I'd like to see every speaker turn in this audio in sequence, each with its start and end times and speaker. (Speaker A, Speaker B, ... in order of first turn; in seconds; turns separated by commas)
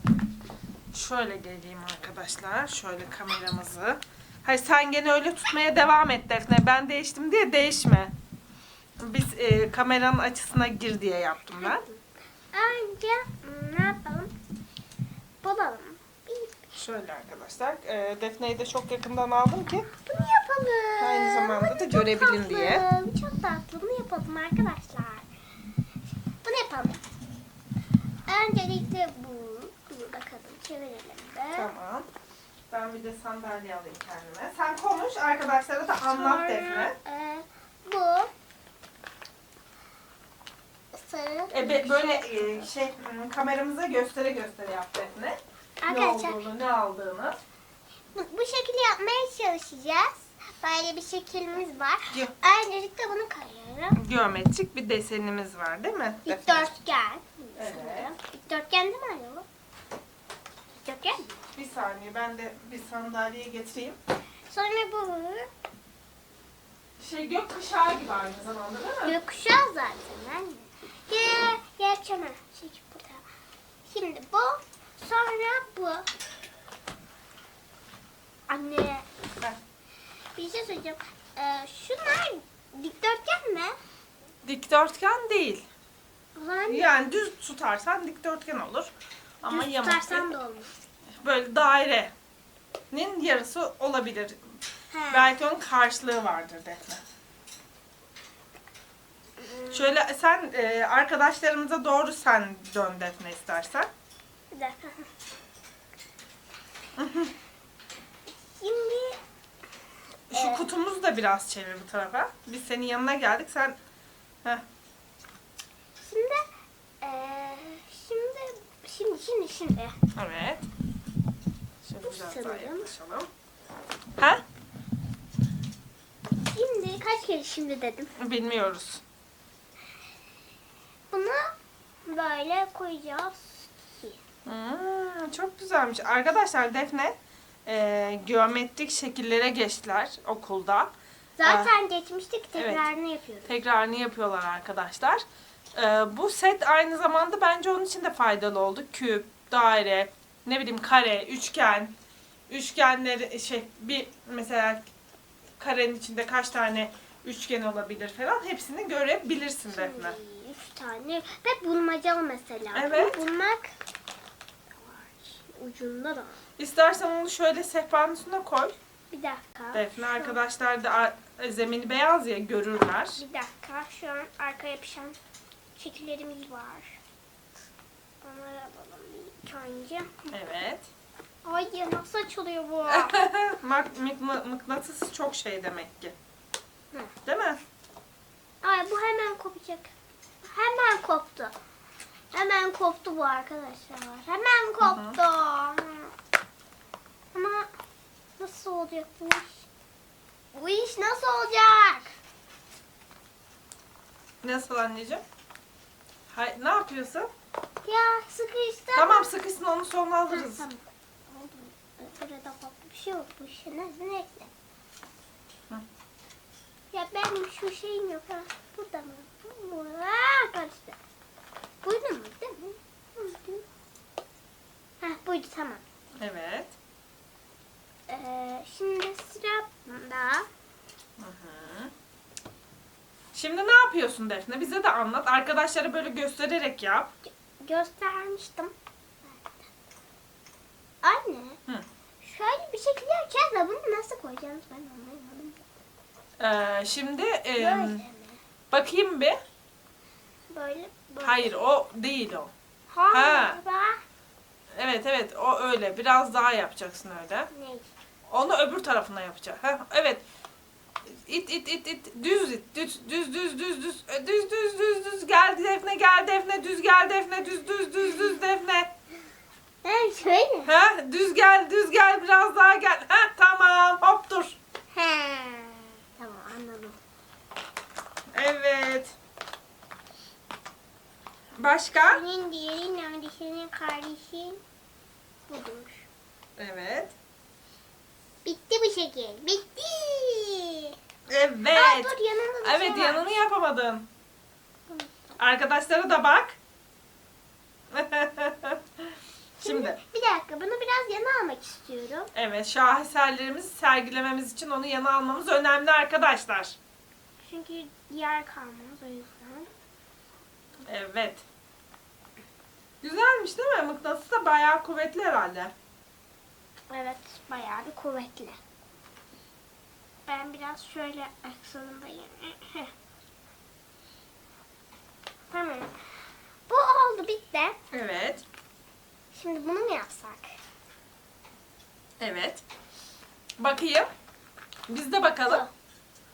Speaker A: 0.9-8.1, Speaker A: 9.0-11.8, Speaker B: 11.5-12.0, Speaker B: 12.5-14.3, Speaker B: 15.4-16.7, Speaker A: 16.7-19.9, Speaker B: 20.0-25.3, Speaker A: 21.0-22.8, Speaker B: 26.4-27.0, Speaker B: 28.3-31.7, Speaker A: 31.5-32.1, Speaker A: 32.7-37.0, Speaker B: 36.1-38.3, Speaker B: 40.9-42.7, Speaker A: 41.5-47.4, Speaker B: 45.8-46.4, Speaker B: 48.1-54.0, Speaker A: 54.0-56.7, Speaker B: 56.2-59.4, Speaker A: 57.5-58.1, Speaker B: 60.8-61.3, Speaker A: 61.5-64.0, Speaker B: 64.5-65.5, Speaker A: 67.0-69.2, Speaker B: 69.0-73.2, Speaker B: 73.8-76.0, Speaker B: 78.5-79.1, Speaker B: 80.3-83.7, Speaker A: 84.4-85.7, Speaker B: 86.3-86.9, Speaker A: 86.7-88.9, Speaker A: 89.4-90.3, Speaker B: 89.4-90.7, Speaker A: 91.2-92.1, Speaker A: 92.9-94.4, Speaker B: 94.9-95.3, Speaker A: 95.1-97.0, Speaker B: 99.4-99.9, Speaker A: 99.7-103.9, Speaker B: 104.5-105.1, Speaker A: 107.0-107.3, Speaker B: 108.5-109.2, Speaker A: 110.3-113.8, Speaker B: 110.3-110.6, Speaker B: 116.0-116.4, Speaker B: 117.0-120.0, Speaker A: 120.2-120.7, Speaker A: 121.8-123.3, Speaker B: 122.0-122.9, Speaker A: 124.2-124.4, Speaker B: 126.5-128.1, Speaker A: 128.2-129.0, Speaker B: 131.1-131.5, Speaker B: 132.1-134.2, Speaker A: 134.4-137.1, Speaker A: 137.7-140.9, Speaker B: 141.4-143.5, Speaker A: 141.4-141.7, Speaker A: 142.6-142.9, Speaker A: 143.4-151.9, Speaker A: 152.5-154.8, Speaker A: 155.6-160.2, Speaker B: 159.7-163.7, Speaker A: 162.7-163.2, Speaker B: 164.8-166.4, Speaker A: 166.6-168.8, Speaker B: 169.1-170.4, Speaker A: 169.7-173.2, Speaker B: 173.2-175.2, Speaker B: 175.7-177.0, Speaker B: 178.2-180.3, Speaker A: 180.3-180.9, Speaker B: 181.4-183.3, Speaker A: 182.9-186.1, Speaker A: 187.2-187.6, Speaker B: 188.6-189.9, Speaker B: 190.4-191.5, Speaker B: 192.3-196.1, Speaker A: 194.8-195.2, Speaker B: 197.3-197.7, Speaker B: 198.4-199.7, Speaker B: 200.5-202.1, Speaker A: 204.4-205.2, Speaker A: 206.3-207.3, Speaker B: 207.8-209.3, Speaker A: 208.9-210.6, Speaker B: 210.3-214.5, Speaker B: 216.9-221.0, Speaker B: 221.8-223.6, Speaker B: 225.0-225.8, Speaker A: 226.2-226.7, Speaker B: 228.1-230.5, Speaker A: 231.2-231.9, Speaker A: 233.3-237.1, Speaker B: 237.2-239.7, Speaker B: 241.0-241.6, Speaker B: 242.2-245.6, Speaker A: 246.4-248.0, Speaker B: 247.6-248.4, Speaker A: 248.7-249.4, Speaker B: 250.5-251.5, Speaker A: 251.2-252.5, Speaker B: 252.9-254.0, Speaker A: 253.1-253.6, Speaker A: 254.7-257.5, Speaker B: 257.5-257.9, Speaker A: 258.3-260.2, Speaker A: 261.2-268.9, Speaker B: 269.8-270.7, Speaker A: 270.6-274.6, Speaker B: 274.9-277.0, Speaker A: 278.3-279.1, Speaker A: 281.6-282.2, Speaker B: 281.9-284.6, Speaker B: 285.5-286.1, Speaker A: 286.6-287.1, Speaker B: 288.4-290.9, Speaker A: 291.3-294.1, Speaker B: 291.7-293.3, Speaker B: 294.9-295.2, Speaker A: 295.4-296.6, Speaker A: 297.9-298.8, Speaker A: 299.6-300.0, Speaker B: 299.6-302.3, Speaker A: 302.3-306.8, Speaker B: 307.4-309.7, Speaker A: 310.9-311.4, Speaker A: 313.0-315.7, Speaker B: 316.9-318.6, Speaker B: 320.2-322.9, Speaker B: 325.5-325.9, Speaker B: 326.7-327.8, Speaker A: 327.9-328.4, Speaker B: 329.3-330.5, Speaker A: 332.2-332.6, Speaker A: 333.6-334.1, Speaker A: 334.9-335.6